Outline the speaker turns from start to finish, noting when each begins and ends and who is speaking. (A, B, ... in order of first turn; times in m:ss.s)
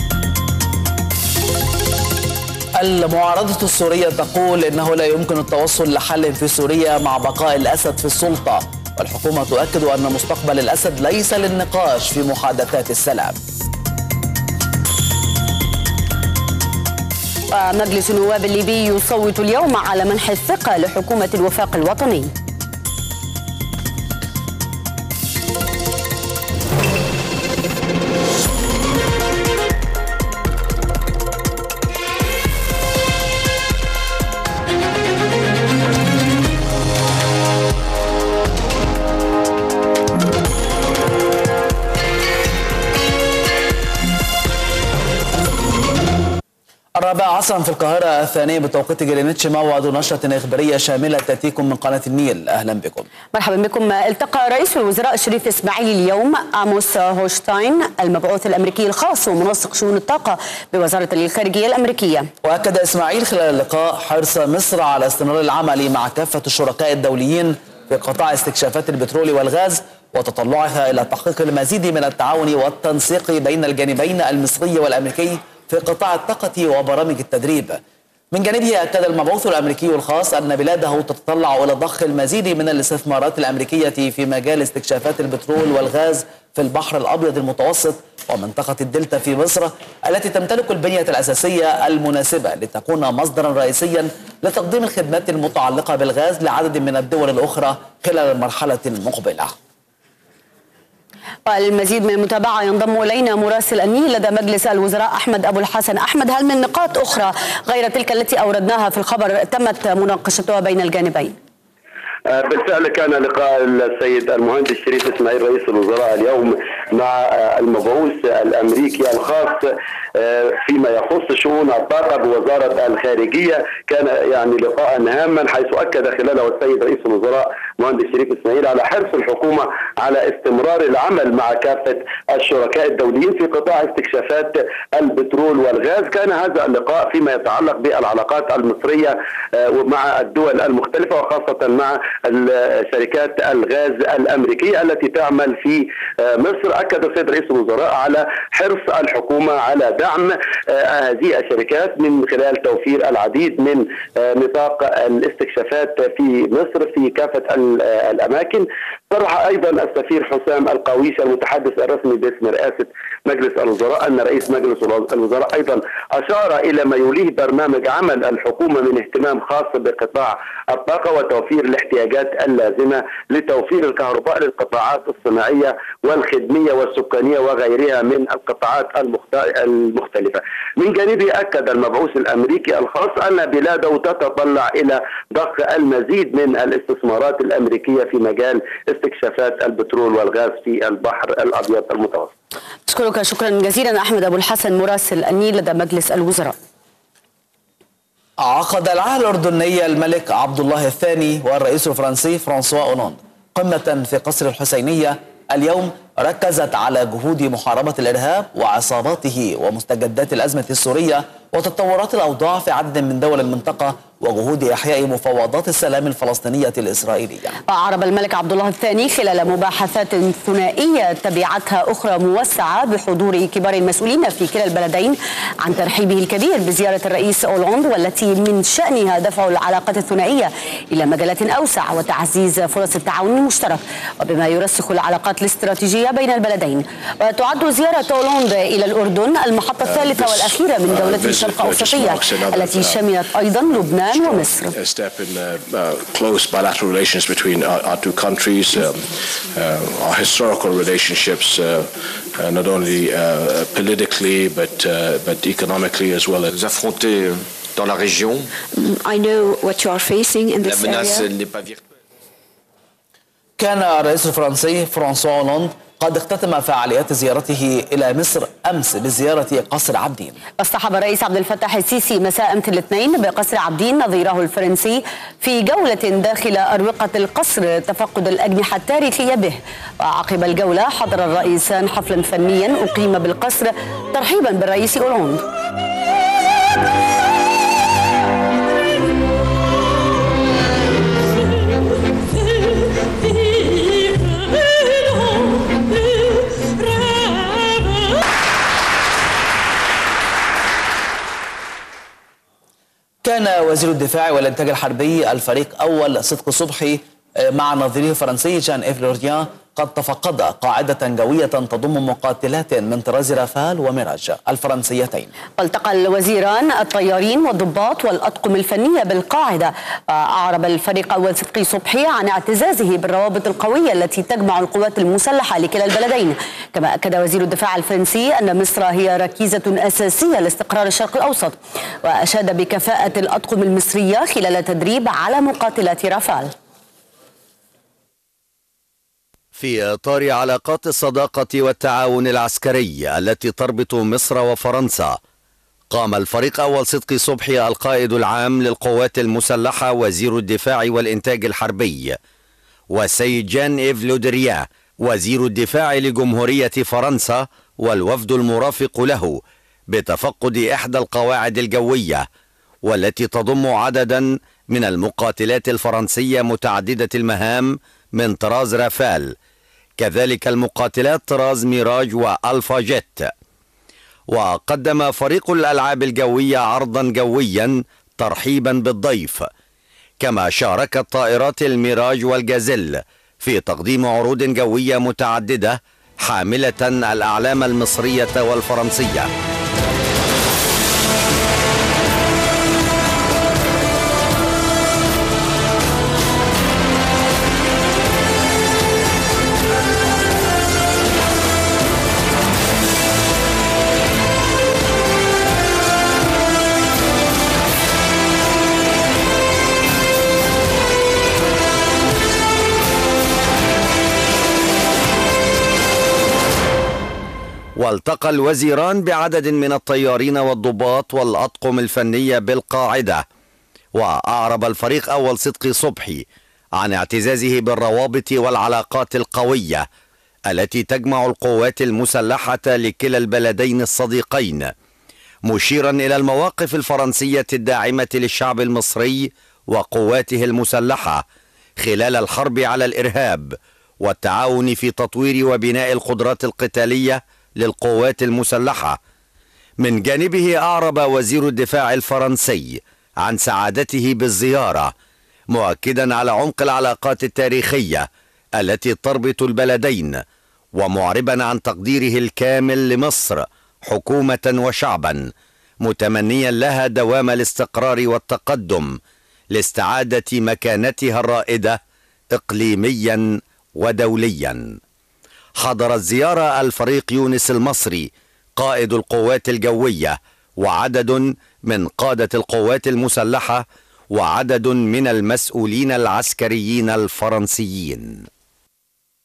0:02.8-0:13.4 A
0:17.5-0:22.3 B
0:47.0-0:53.1 A
0:53.3-1:02.3 B
1:02.4-1:17.8 A
1:18.3-1:39.6 A
1:41.5-1:51.3 B
1:52.3-3:12.3 C
3:12.9-3:16.6 B
3:18.4-3:37.6 A
3:37.7-4:04.8 B
3:59.8-4:03.0 D
4:03.7-4:16.5 D
4:16.5-4:18.5 E
4:18.7-4:21.2 F
4:20.7-4:21.8 E
4:23.6-4:30.4 A
4:30.6-4:45.4 B
5:03.2-5:15.3 A
5:15.6-5:36.5 B
5:39.6-5:45.2 G
5:45.9-5:52.2 G
5:52.9-5:59.4 G
5:59.9-6:02.3 G
6:02.9-6:09.3 G
6:10.0-6:13.3 G
6:14.3-6:19.5 G
6:20.2-6:29.3 G
6:57.8-7:03.2 G
7:04.0-7:06.2 G
7:06.8-7:09.8 G
7:10.5-7:14.7 G
7:15.5-7:21.2 G
7:21.8-7:29.0 G
7:29.8-7:34.9 G
7:35.5-7:38.1 G
7:38.6-7:40.2 G
7:40.8-7:45.3 G
7:45.8-7:49.0 G
7:49.5-7:51.8 G
7:52.3-7:53.3 G
7:53.8-7:54.6 G
7:55.6-8:08.2 G